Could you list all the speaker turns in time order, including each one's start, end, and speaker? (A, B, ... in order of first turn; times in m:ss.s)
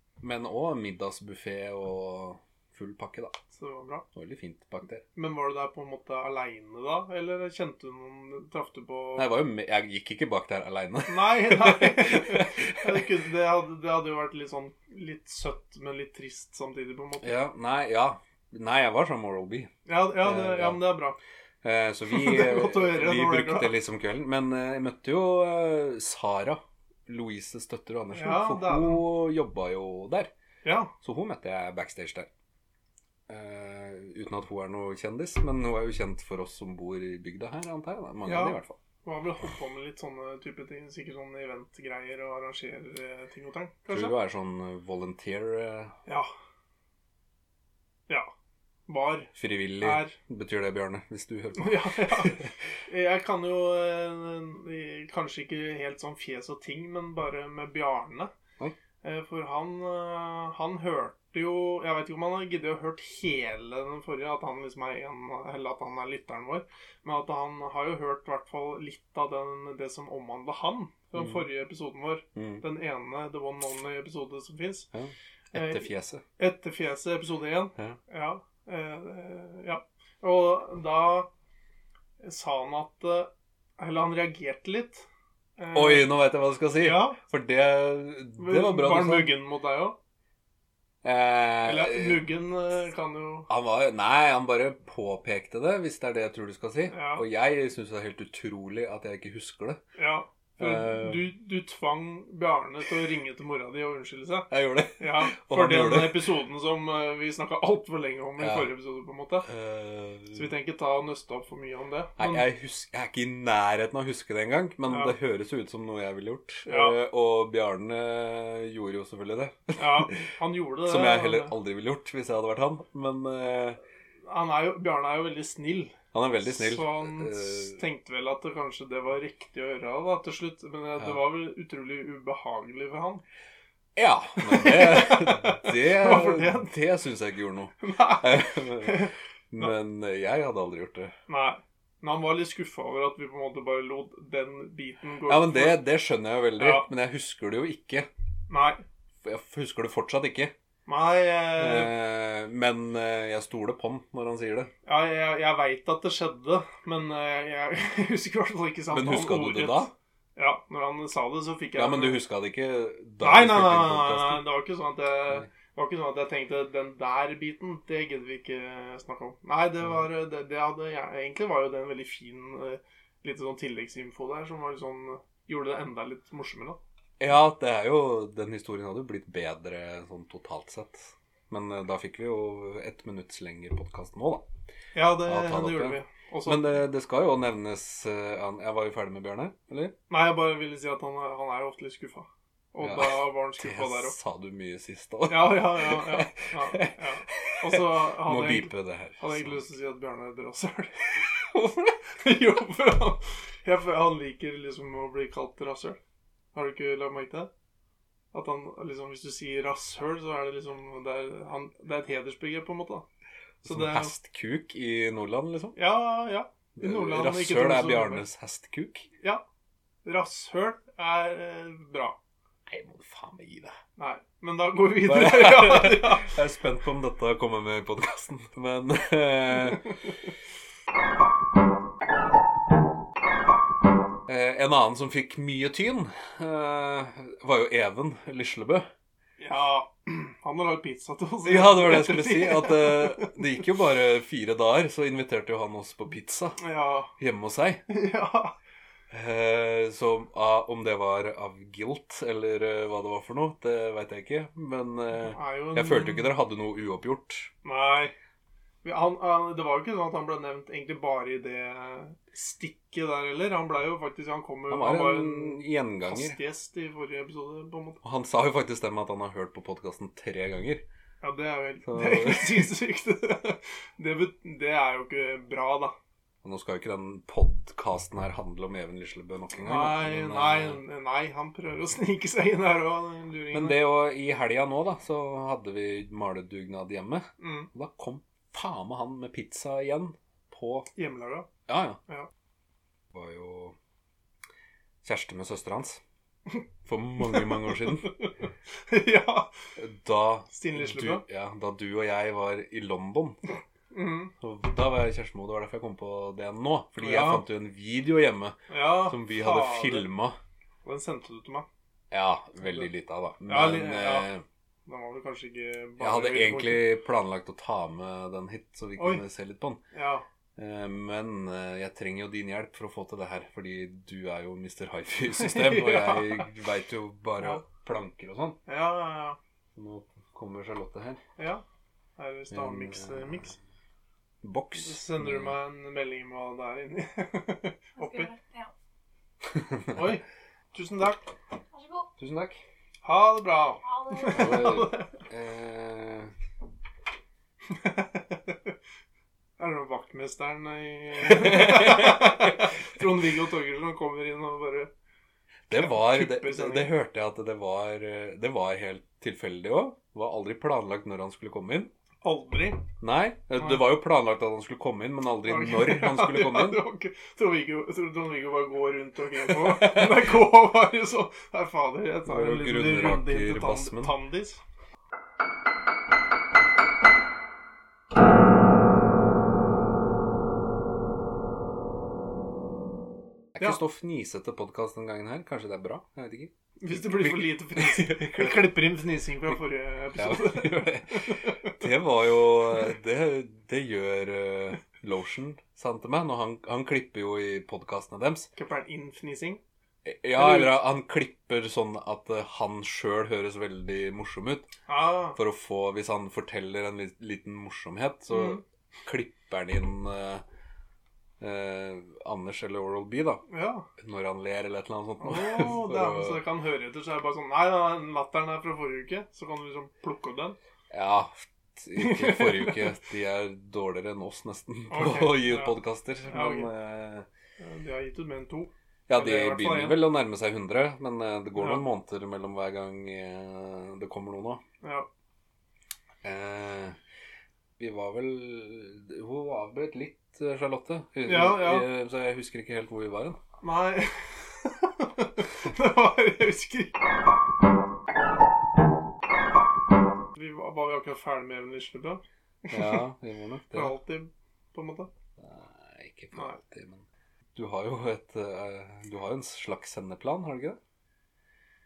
0:00.2-0:03.4 A
0:03.6-0:04.0 B
0:04.1-0:05.0 A
0:05.2-0:09.3 B
0:09.2-0:13.0 A
0:11.1-0:17.4 B
0:17.2-0:20.8 A
0:19.9-0:21.2 B
0:21.6-0:30.3 A
0:22.1-0:23.7 B
0:28.1-0:29.0 B
0:30.6-0:30.9 B
0:31.0-0:32.3 A
0:33.3-0:38.8 A
0:38.3-0:44.2 B
0:43.9-0:45.9 A
0:48.9-0:50.2 B
0:49.4-0:52.5 A
0:51.6-0:58.3 B
0:59.0-1:14.9 B
1:11.2-1:11.4 A
1:12.4-1:12.6 A
1:14.9-1:16.2 A
1:15.5-1:21.3 B
1:22.2-1:25.1 B
1:25.6-1:26.1 B
1:25.7-1:29.3 A
1:26.8-1:27.2 B
1:28.4-1:30.0 B
1:31.0-1:32.2 A
1:31.6-1:33.5 B
1:33.5-1:39.8 A
1:36.9-1:37.2 B
1:40.0-1:49.5 B
1:40.6-1:41.2 A
1:44.5-1:46.3 A
1:48.4-1:48.7 A
1:49.4-1:50.5 A
1:50.3-1:52.5 B
1:52.2-2:00.2 A
1:54.9-1:55.2 B
1:56.7-1:57.0 B
1:59.8-2:01.5 B
2:00.8-2:03.8 A
2:04.3-2:13.2 B
2:06.1-2:07.8 A
2:14.0-2:21.2 A
2:14.4-2:16.7 B
2:17.8-2:19.7 B
2:21.3-2:25.8 B
2:25.3-2:28.1 A
2:26.6-2:26.9 B
2:28.5-2:28.8 B
2:29.2-2:30.5 A
2:30.9-2:31.9 B
2:31.6-2:34.7 A
2:34.9-2:42.2 B
2:38.9-2:39.9 A
2:41.8-2:44.4 A
2:43.2-2:56.8 B
2:57.2-3:04.4 A
3:05.0-3:06.7 B
3:05.2-3:09.9 A
3:10.1-3:14.2 B
3:12.8-3:19.6 A
3:15.3-3:26.0 B
3:26.5-3:27.5 B
3:28.3-3:33.0 B
3:33.6-3:35.8 A
3:33.6-3:34.1 B
3:35.8-3:38.3 B
3:36.8-3:39.1 A
3:40.0-3:42.2 B
3:42.7-3:43.8 A
3:44.0-3:46.4 B
3:45.0-3:50.0 A
3:54.3-3:58.9 A
3:59.4-4:03.4 B
4:01.4-4:06.6 A
4:06.6-4:07.1 B
4:07.2-4:07.8 A
4:07.9-4:08.5 B
4:09.1-4:17.5 A
4:15.3-4:16.3 B
4:17.6-4:18.1 B
4:18.8-4:28.0 B
4:24.7-4:26.4 A
4:28.0-4:30.8 A
4:31.2-4:36.0 B
4:31.8-4:32.7 A
4:36.4-4:40.8 A
4:39.6-4:43.8 B
4:43.5-4:50.9 A
4:47.4-4:47.7 B
4:51.0-4:51.5 B
4:51.7-4:52.0 A
4:53.1-4:53.8 A
4:55.0-4:56.0 A
4:56.9-4:58.1 A
4:57.2-4:58.3 B
4:58.9-4:59.5 B
4:59.8-5:03.4 A
5:00.5-5:01.2 B
5:03.9-5:04.3 B
5:04.4-5:10.4 A
5:07.0-5:07.4 B
5:08.7-5:10.1 B
5:10.8-5:11.7 B
5:12.1-5:14.4 A
5:13.5-5:14.3 B
5:14.9-5:16.9 B
5:16.0-5:19.8 A
5:19.0-5:19.2 B
5:19.9-5:20.2 B
5:20.6-5:28.6 A
5:25.3-5:26.5 B
5:28.7-5:29.4 B
5:29.8-5:31.2 A
5:31.4-5:31.6 B
5:32.2-5:33.6 B
5:32.5-5:33.5 A
5:34.4-5:35.5 A
5:34.8-5:38.3 B
5:38.0-5:38.7 C
5:39.5-5:40.0 A
5:39.9-5:41.2 B
5:41.7-5:42.1 C
5:42.2-5:42.6 A
5:43.0-5:45.1 B
5:43.8-5:44.8 C
5:44.3-5:46.3 A
5:47.7-5:48.7 B
5:49.6-5:54.9 B
5:51.2-5:52.7 A
5:55.7-6:01.9 A
5:55.7-5:56.9 B
6:02.2-6:02.8 B
6:03.0-6:06.8 A
6:05.4-6:14.6 B
6:09.5-6:10.3 A
6:12.3-6:14.1 A
6:23.6-6:28.8 A
6:26.8-6:31.7 B
6:30.2-6:38.5 A
6:38.6-6:39.6 B
6:40.0-6:44.7 A
6:40.4-6:40.8 B
6:44.9-6:45.4 B
6:45.4-6:50.4 A
6:48.3-6:48.6 B
6:51.4-6:53.4 A
6:53.5-6:53.9 B
6:54.0-6:56.4 A
6:55.2-7:00.6 B
7:00.9-7:07.3 A
7:02.0-7:02.9 B
7:04.9-7:05.8 B
7:06.3-7:06.7 B
7:07.6-7:10.0 B
7:09.1-7:14.6 A
7:11.6-7:11.8 B
7:14.8-7:15.1 B
7:16.2-7:17.0 A
7:17.8-7:23.4 A
7:21.2-7:21.8 B
7:23.6-7:26.9 B
7:30.4-7:33.0 B
7:32.7-7:34.0 A
7:33.7-7:35.1 B
7:35.4-7:37.0 A
7:37.6-7:40.8 A